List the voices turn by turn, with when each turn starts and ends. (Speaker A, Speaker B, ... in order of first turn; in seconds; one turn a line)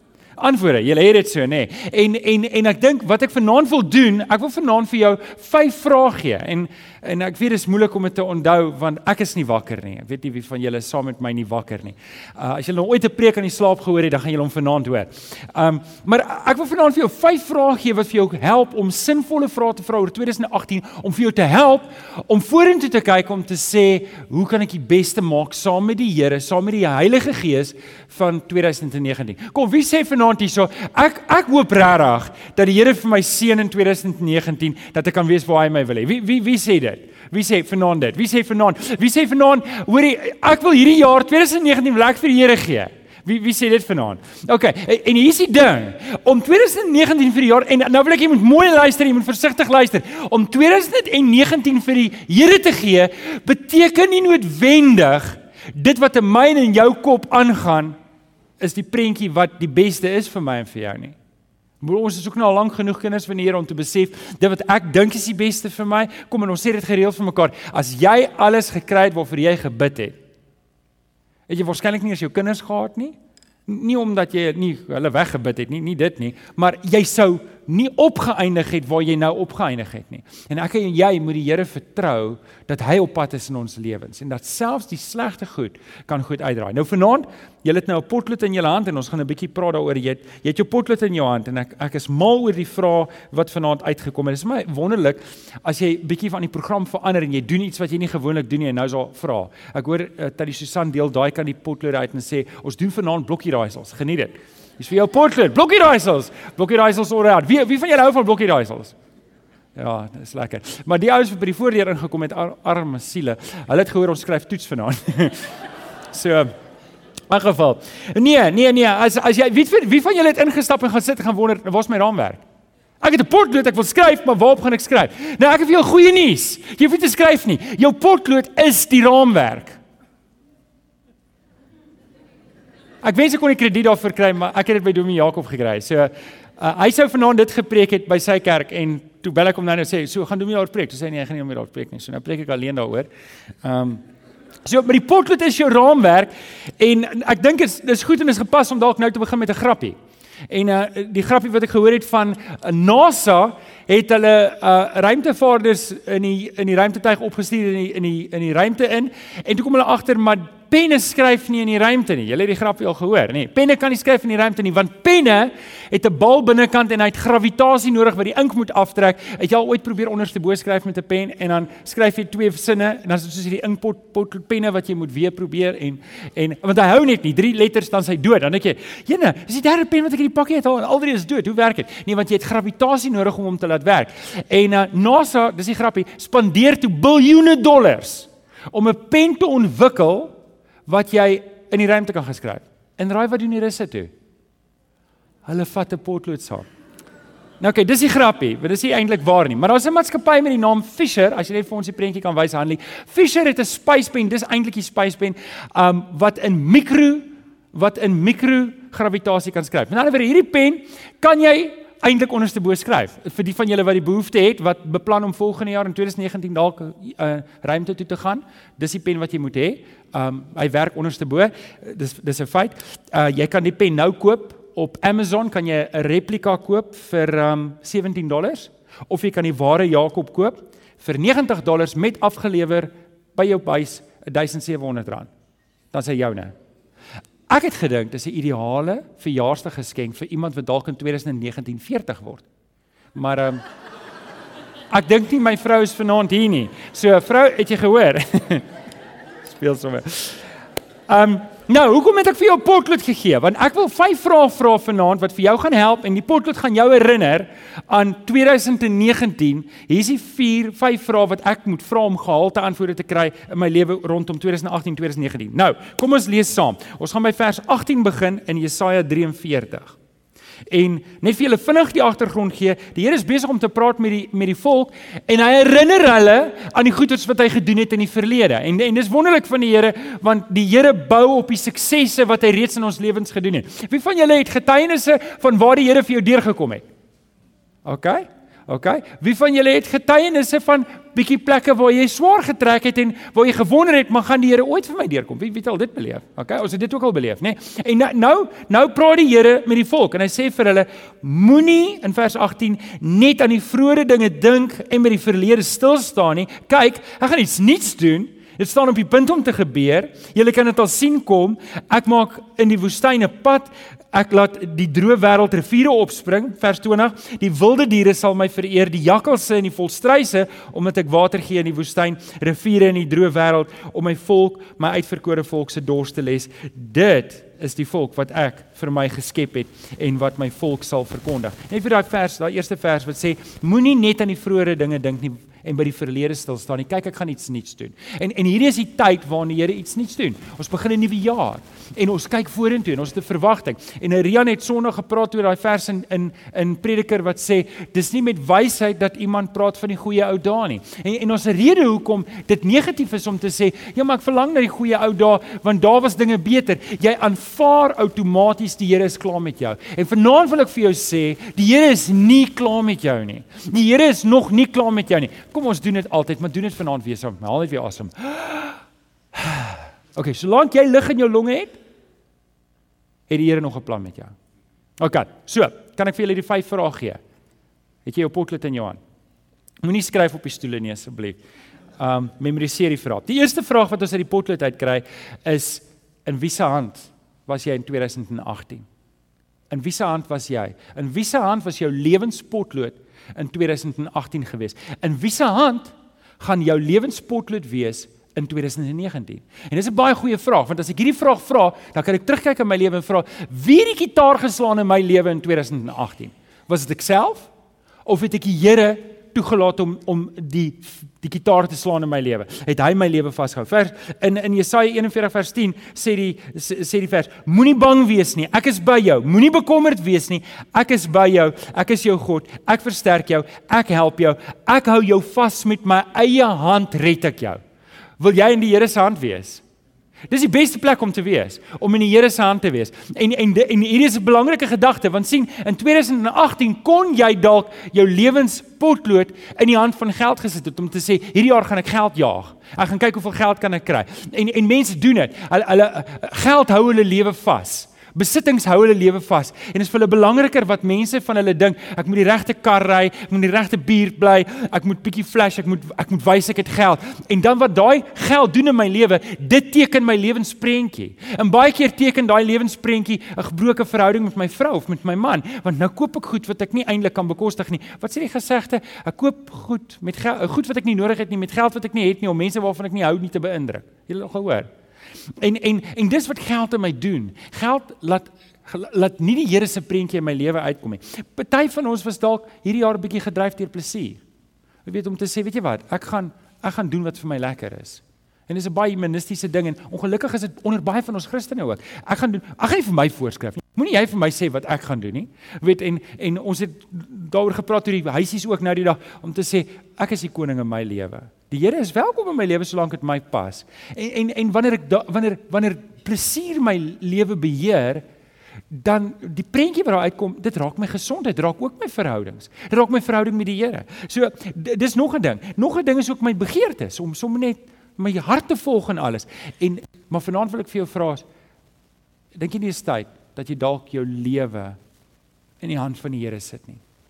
Speaker A: 0.4-58.0
Speaker A: 58.6-61.2
Speaker A: 61.8-70.2
Speaker A: 71.5-73.2
Speaker A: 73.7-109.0
Speaker A: 109.8-115.6
Speaker A: 116.1-116.5
Speaker A: 117.3-122.4
Speaker A: 123.0-129.8
Speaker A: 133.0-143.1
Speaker A: 143.6-144.0
Speaker A: 144.7-150.0
Speaker A: 150.5-194.1
Speaker A: 195.4-196.7
Speaker A: 197.6-235.3
Speaker A: 235.9-236.5
Speaker A: 237.5-242.5
Speaker A: 243.1-243.6
Speaker A: 244.9-248.7
Speaker A: 249.5-250.5
Speaker A: 251.1-270.0
Speaker A: 270.7-286.9
Speaker A: 287.8-368.8
Speaker A: 369.3-371.8
Speaker A: 373.3-374.3
Speaker A: 375.0-377.2
Speaker A: 378.1-379.0
Speaker A: 379.8-381.4
Speaker A: 382.0-388.9
Speaker A: 389.7-407.5
Speaker A: 408.1-427.6
Speaker A: 428.2-429.6
Speaker A: 430.3-474.7
Speaker A: 475.4-484.2
Speaker A: 484.9-508.1
Speaker A: 508.7-521.3
Speaker A: 522.3-524.8
Speaker A: 525.6-526.8